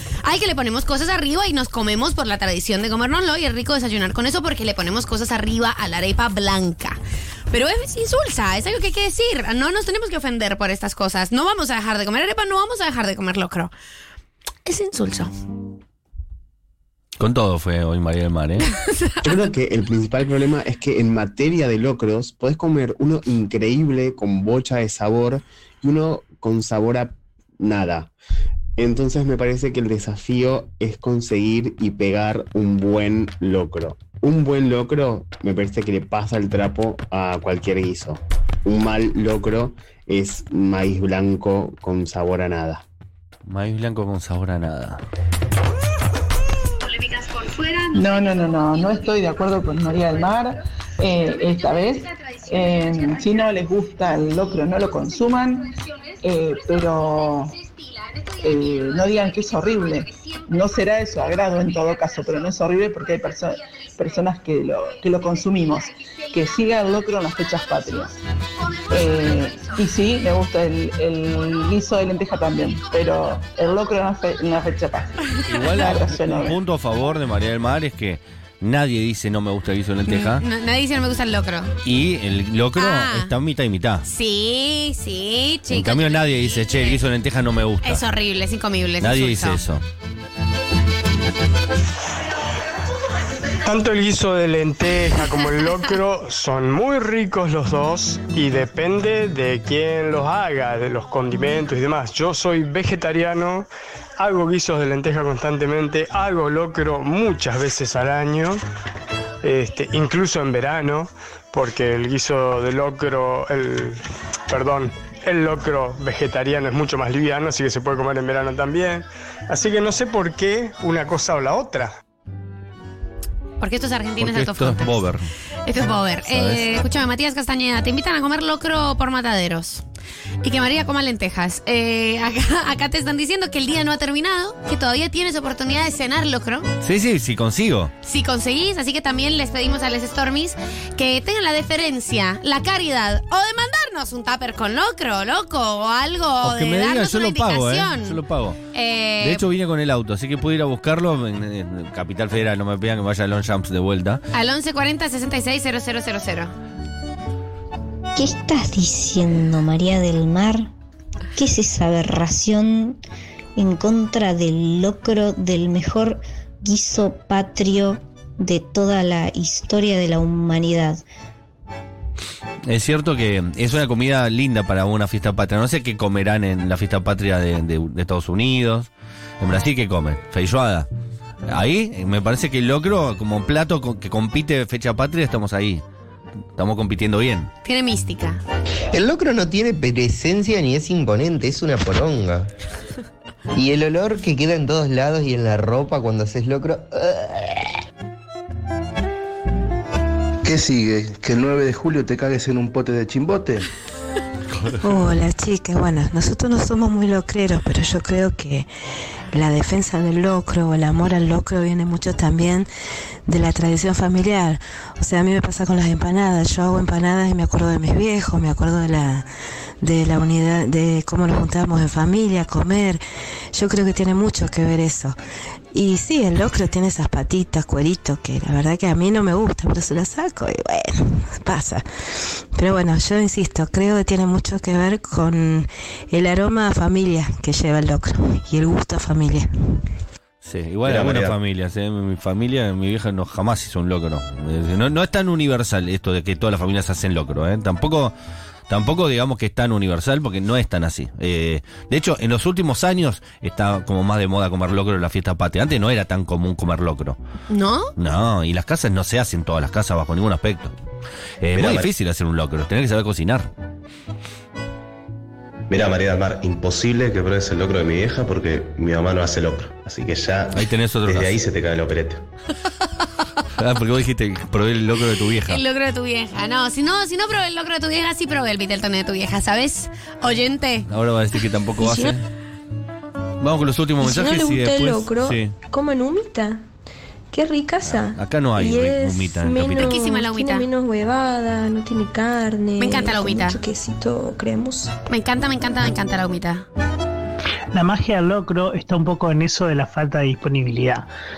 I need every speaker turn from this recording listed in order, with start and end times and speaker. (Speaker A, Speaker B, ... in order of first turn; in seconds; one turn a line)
Speaker A: 0.2-7.0
Speaker A: 7.5-13.7
Speaker A: 14.7-15.3
Speaker B: 17.2-18.7
Speaker C: 19.2-28.1
Speaker C: 28.8-42.9
Speaker B: 43.5-45.0
Speaker D: 47.9-57.6
Speaker D: 58.4-68.2
Speaker D: 68.9-76.6
Speaker B: 75.5-80.4
Speaker A: 80.1-81.8
Speaker B: 81.8-84.1
Speaker A: 82.8-83.3
Speaker A: 84.0-87.0
Speaker B: 85.7-88.0
Speaker A: 87.8-89.6
Speaker B: 89.0-89.8
Speaker E: 93.7-103.7
Speaker E: 104.2-108.6
Speaker E: 109.4-121.9
Speaker A: 123.6-125.0
Speaker B: 124.2-125.3
Speaker A: 125.7-129.8
Speaker B: 126.3-126.7
Speaker A: 130.4-136.7
Speaker B: 136.8-137.9
Speaker A: 138.0-148.2
Speaker B: 146.4-148.6
Speaker A: 148.7-149.4
Speaker B: 149.2-154.2
Speaker A: 154.3-156.5
Speaker F: 158.2-160.7
Speaker F: 161.3-163.0
Speaker F: 163.6-171.0
Speaker B: 172.7-180.9
Speaker B: 181.5-185.8
Speaker B: 186.6-187.5
Speaker A: 187.6-188.4
Speaker G: 188.9-192.5
Speaker G: 193.5-197.7
Speaker H: 200.4-203.6
Speaker I: 204.8-208.7
Speaker I: 209.3-212.7
Speaker I: 213.3-219.3
Speaker I: 219.8-223.0
Speaker I: 223.5-225.2
Speaker I: 225.7-231.8
Speaker I: 232.6-239.5
Speaker B: 240.4-248.1
Speaker G: 240.9-241.3
Speaker B: 248.7-257.2
Speaker A: 257.5-257.9
Speaker B: 258.0-260.7
Speaker B: 261.4-263.5
Speaker G: 261.6-261.8
Speaker B: 270.5-271.4
Speaker B: 273.6-275.6
Speaker A: 275.5-280.9
Speaker B: 280.9-282.2
Speaker J: 281.8-282.2
Speaker B: 283.4-285.5
Speaker J: 284.0-286.6
Speaker J: 287.3-294.9
Speaker B: 287.8-289.9
Speaker A: 289.8-290.6
Speaker A: 292.8-293.6
Speaker A: 295.1-296.7
Speaker K: 297.7-301.1